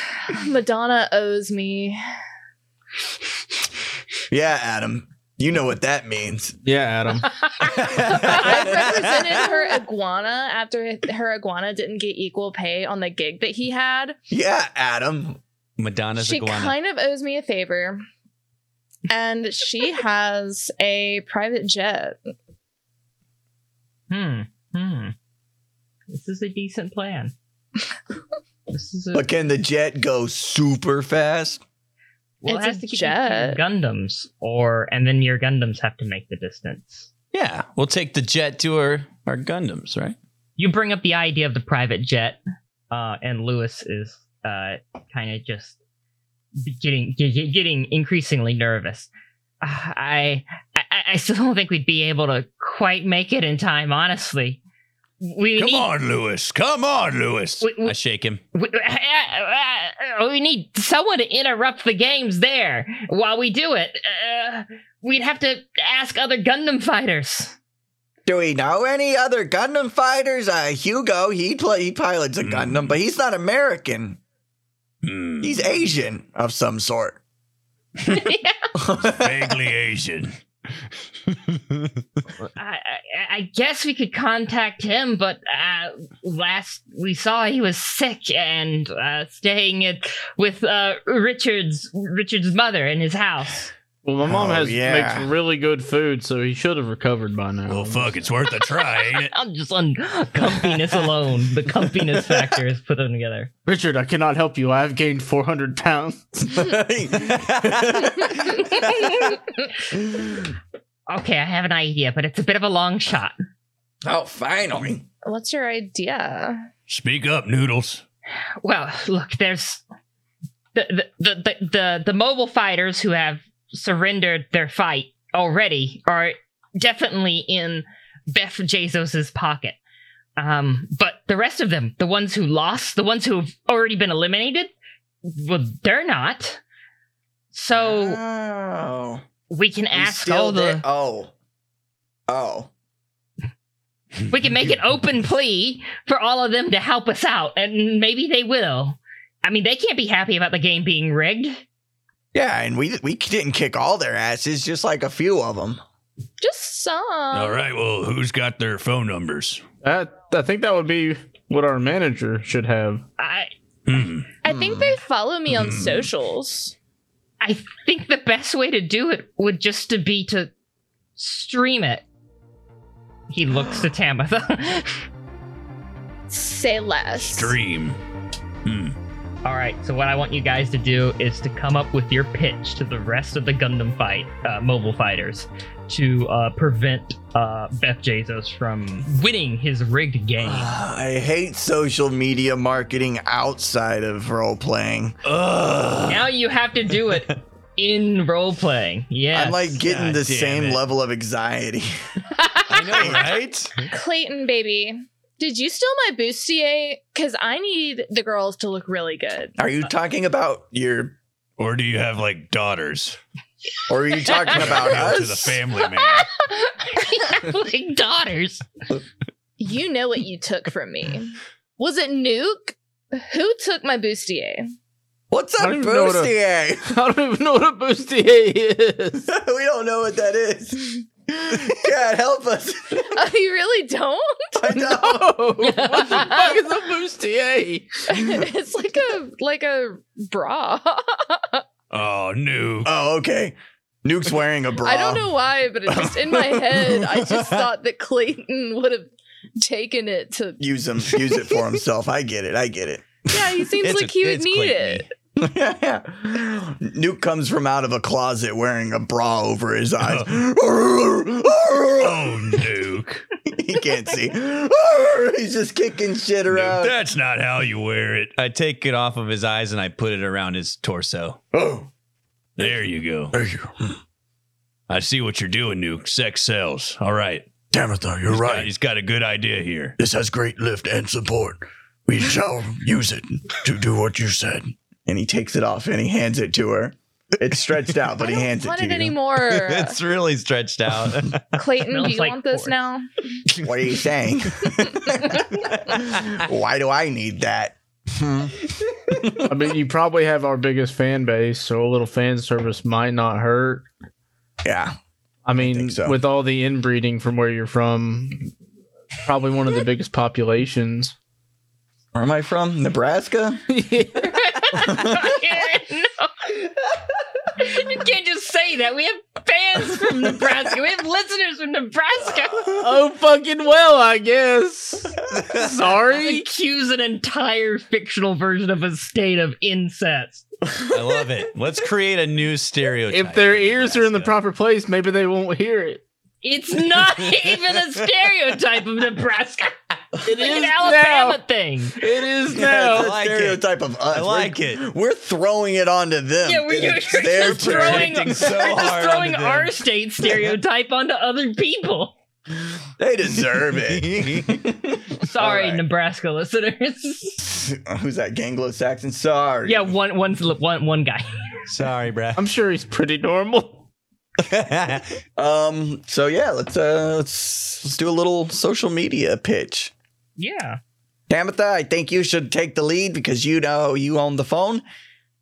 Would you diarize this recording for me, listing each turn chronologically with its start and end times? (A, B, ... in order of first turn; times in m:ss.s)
0:00.3-0:02.0 A
0:04.3-0:06.6 B
0:06.6-0:07.4 C
0:07.4-0:07.9 D
0:08.0-0:09.4 E
0:08.0-0:14.2 A
0:08.3-0:09.0 B
0:14.3-0:15.4 B
0:15.8-0:16.8 E
0:16.2-0:18.0 A
0:19.1-0:22.2 A
0:24.1-0:25.1 D
0:26.1-0:27.3 D
0:28.7-0:29.3 D
0:29.1-0:31.6 B
0:32.4-0:37.1 D
0:32.5-0:33.6 A
0:37.3-0:40.2 E
0:40.6-0:42.4 D
0:42.9-0:45.8 D
0:46.6-0:49.1 D
0:49.6-0:54.6 D
0:55.2-0:55.9 D
0:55.6-0:58.4 E
0:57.6-0:58.0 D
0:58.5-1:07.6 D
1:08.3-1:14.2 B
1:12.4-1:12.9 E
1:15.0-1:15.5 E
1:15.4-1:17.2 B
1:18.1-1:18.7 D
1:18.8-1:19.6 B
1:19.0-1:20.3 E
1:21.3-1:22.0 E
1:22.6-1:33.7 D
1:34.0-1:38.2 C
1:34.3-1:35.3 B
1:37.7-1:39.3 E
1:39.2-1:43.5 D
1:43.7-1:46.6 C
1:46.4-1:48.7 B
1:47.2-1:48.7 E
1:48.7-1:49.4 D
1:50.0-1:50.4 B
1:51.1-1:53.4 D
1:54.0-1:55.0 B
1:55.2-1:56.7 A
1:56.9-1:58.0 E
1:58.6-1:59.8 D
2:00.7-2:09.8 D
2:10.4-2:14.7 D
2:15.2-2:16.6 D
2:17.5-2:18.2 D
2:17.7-2:19.2 B
2:19.5-2:20.8 D
2:19.9-2:21.3 B
2:22.3-2:22.7 B
2:24.3-2:31.6 D
2:32.3-2:35.8 B
2:36.4-2:37.6 A
2:37.3-2:39.6 E
2:39.8-2:43.0 C
2:43.2-2:43.5 D
2:43.9-2:44.3 E
2:44.4-2:46.7 A
2:44.5-2:45.0 B
2:45.5-2:46.1 E
2:47.4-2:50.5 D
2:51.2-2:52.0 D
2:53.3-2:55.0 D
2:56.3-2:57.6 A
2:57.2-2:58.0 E
2:58.6-2:59.0 E
2:59.4-3:10.8 D
3:10.4-3:15.2 B
3:15.2-3:16.3 E
3:16.1-3:19.8 D
3:19.3-3:21.9 B
3:19.8-3:20.8 E
3:22.4-3:22.7 D
3:22.7-3:23.8 E
3:22.9-3:23.3 B
3:23.9-3:29.5 A
3:29.6-3:31.2 B
3:31.6-3:33.2 E
3:33.9-3:35.6 B
3:34.5-3:36.3 E
3:36.0-3:38.6 D
3:39.6-3:44.7 A
3:45.3-3:47.0 B
3:45.6-3:46.3 C
3:46.9-3:49.3 C
3:49.3-3:53.2 B
3:53.1-3:54.6 A
3:54.6-3:55.4 B
3:54.7-3:57.9 C
3:55.6-3:56.4 D
3:56.0-3:56.6 A
3:58.1-4:01.6 A
4:01.9-4:02.9 E
4:02.8-4:05.3 B
4:04.8-4:10.6 A
4:05.9-4:06.9 B
4:07.2-4:07.7 E
4:10.6-4:13.5 B
4:13.3-4:15.0 A
4:13.8-4:15.1 E
4:15.4-4:22.6 B
4:20.0-4:20.3 E
4:22.0-4:23.3 E
4:23.4-4:27.0 B
4:26.5-4:31.4 E
4:31.5-4:31.9 B
4:32.6-4:33.4 E
4:33.3-4:34.0 B
4:34.9-4:37.5 E
4:37.7-4:38.7 B
4:38.3-4:40.0 E
4:40.0-4:49.2 B
4:48.2-4:50.0 A
4:49.4-4:51.4 E
4:51.5-4:53.1 A
4:51.8-4:52.8 D
4:53.6-4:59.5 B
4:59.4-5:03.9 C
5:04.6-5:05.0 B
5:05.5-5:08.5 C
5:05.6-5:06.2 B
5:09.2-5:11.2 C
5:12.2-5:13.6 B
5:13.7-5:14.7 C
5:14.2-5:16.7 D
5:14.8-5:15.4 B
5:17.6-5:22.9 D
5:22.7-5:26.4 C
5:25.4-5:25.7 E
5:26.0-5:30.5 D
5:30.9-5:34.3 E
5:33.1-5:36.0 C
5:36.4-5:39.7 D
5:40.2-5:41.4 C
5:40.3-5:42.0 D
5:42.0-5:43.2 C
5:42.5-5:48.7 B
5:42.7-5:44.8 E
5:46.4-5:52.2 D
5:47.3-5:49.7 E
5:53.0-5:55.8 B
5:53.8-5:54.6 E
5:55.2-5:57.5 D
5:57.4-5:59.9 B
5:59.6-6:01.3 D
6:01.7-6:02.4 E
6:02.4-6:03.8 C
6:04.4-6:05.2 E
6:05.4-6:09.9 B
6:10.4-6:10.8 D
6:11.3-6:14.8 B